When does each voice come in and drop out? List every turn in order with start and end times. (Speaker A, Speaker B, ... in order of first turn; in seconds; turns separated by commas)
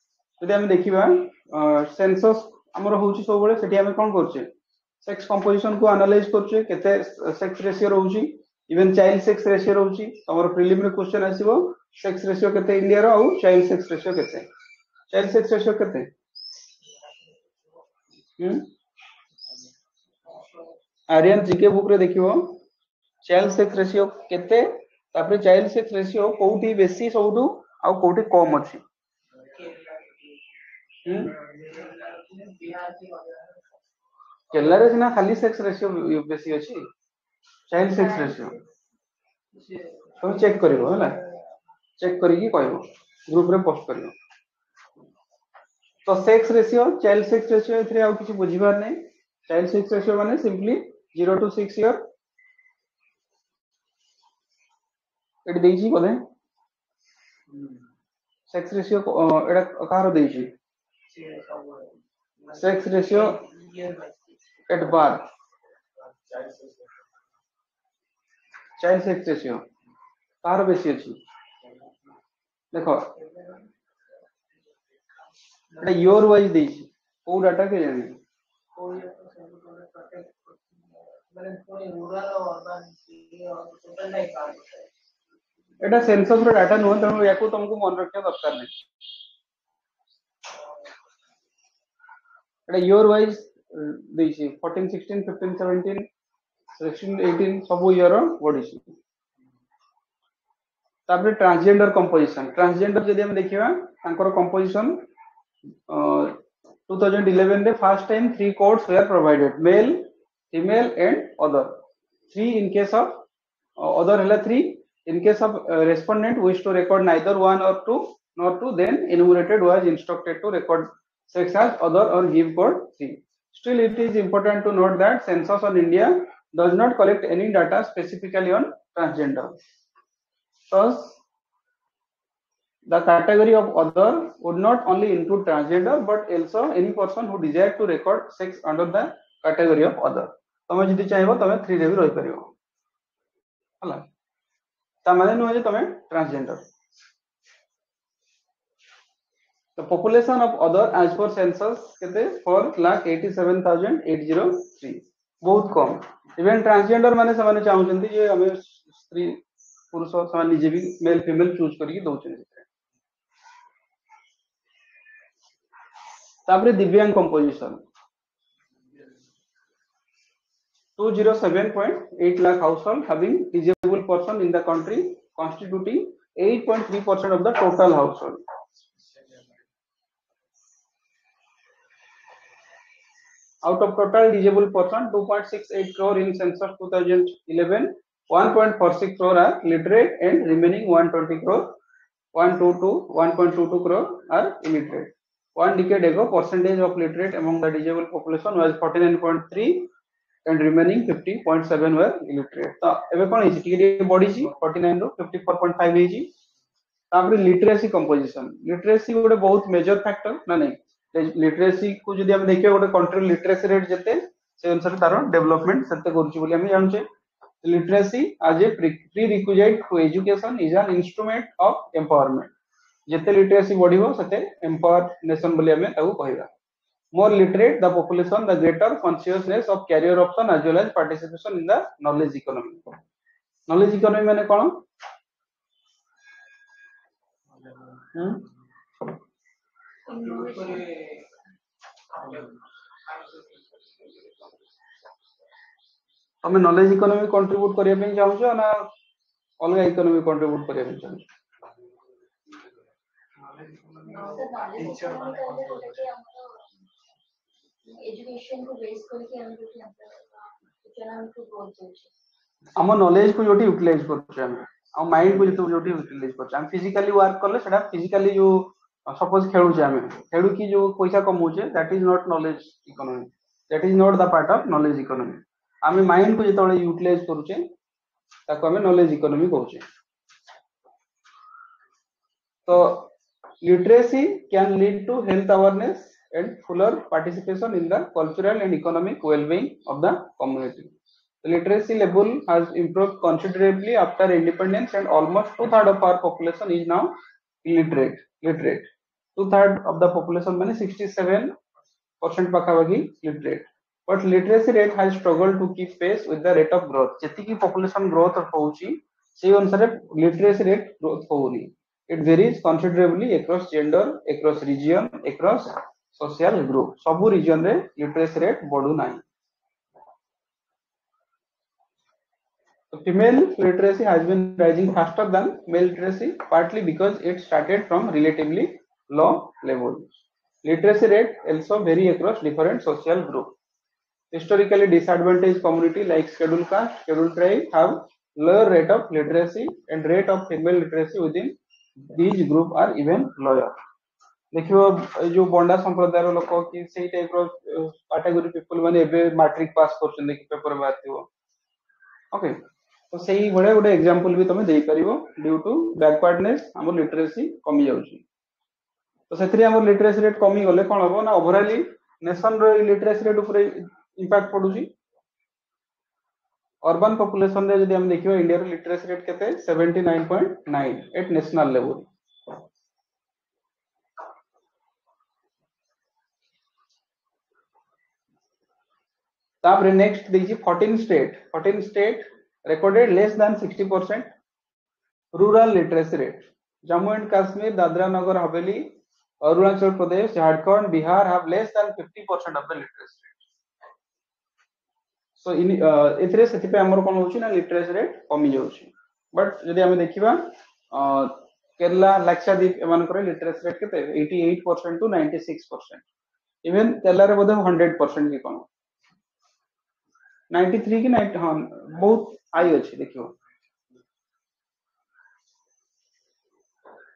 Speaker A: 0.4-4.5, Speaker A: 5.0-14.5, Speaker A: 15.1-16.1, Speaker A: 18.4-18.7, Speaker B: 20.2-20.7, Speaker A: 21.1-22.6, Speaker A: 23.2-28.8, Speaker B: 29.3-30.4, Speaker A: 31.0-31.3, Speaker B: 31.1-33.8, Speaker A: 34.5-36.8, Speaker A: 37.7-38.5, Speaker B: 39.5-41.3, Speaker A: 40.2-41.2, Speaker A: 42.0-44.1, Speaker A: 46.0-52.1, Speaker A: 55.5-56.2, Speaker B: 57.5-57.8, Speaker A: 58.5-60.5, Speaker B: 61.1-64.4, Speaker A: 62.6-63.4, Speaker A: 64.7-65.3, Speaker B: 66.0-67.0, Speaker A: 68.8-69.6, Speaker A: 70.4-71.2, Speaker A: 72.7-73.1, Speaker B: 73.1-73.7, Speaker A: 75.8-78.2, Speaker B: 78.7-84.9, Speaker A: 85.8-88.7, Speaker A: 92.7-96.1, Speaker A: 96.7-98.9, Speaker A: 101.1-105.0, Speaker A: 105.9-111.8, Speaker A: 112.3-113.2, Speaker A: 113.8-129.6, Speaker A: 130.7-131.2, Speaker A: 132.9-142.5, Speaker A: 143.8-144.1, Speaker A: 145.0-146.7, Speaker A: 149.8-159.4, Speaker A: 159.9-162.6, Speaker A: 166.5-167.8, Speaker A: 171.0-178.4, Speaker B: 179.1-179.4, Speaker A: 183.6-191.8, Speaker A: 192.3-199.9, Speaker A: 200.4-206.3, Speaker A: 207.1-217.0, Speaker A: 217.6-222.5, Speaker A: 223.1-226.5, Speaker A: 227.1-232.9, Speaker A: 233.7-234.8, Speaker A: 238.1-238.4, Speaker C: 240.1-240.9, Speaker B: 240.1-241.3, Speaker B: 242.1-244.5, Speaker A: 246.4-248.9, Speaker A: 249.6-251.2, Speaker B: 253.4-255.9, Speaker C: 254.1-256.5, Speaker C: 258.0-262.1, Speaker A: 262.8-277.6, Speaker A: 278.5-279.8, Speaker A: 282.7-283.1, Speaker A: 283.6-290.9, Speaker A: 291.4-301.5, Speaker A: 302.2-319.2, Speaker A: 322.9-330.1, Speaker A: 330.6-333.5, Speaker A: 334.3-343.7, Speaker A: 344.5-351.2, Speaker A: 352.3-352.6, Speaker A: 353.1-358.2, Speaker A: 359.3-364.9, Speaker A: 366.8-372.1, Speaker A: 379.6-384.3, Speaker A: 385.3-393.4, Speaker A: 395.4-406.0, Speaker A: 406.6-408.6, Speaker A: 410.5-413.3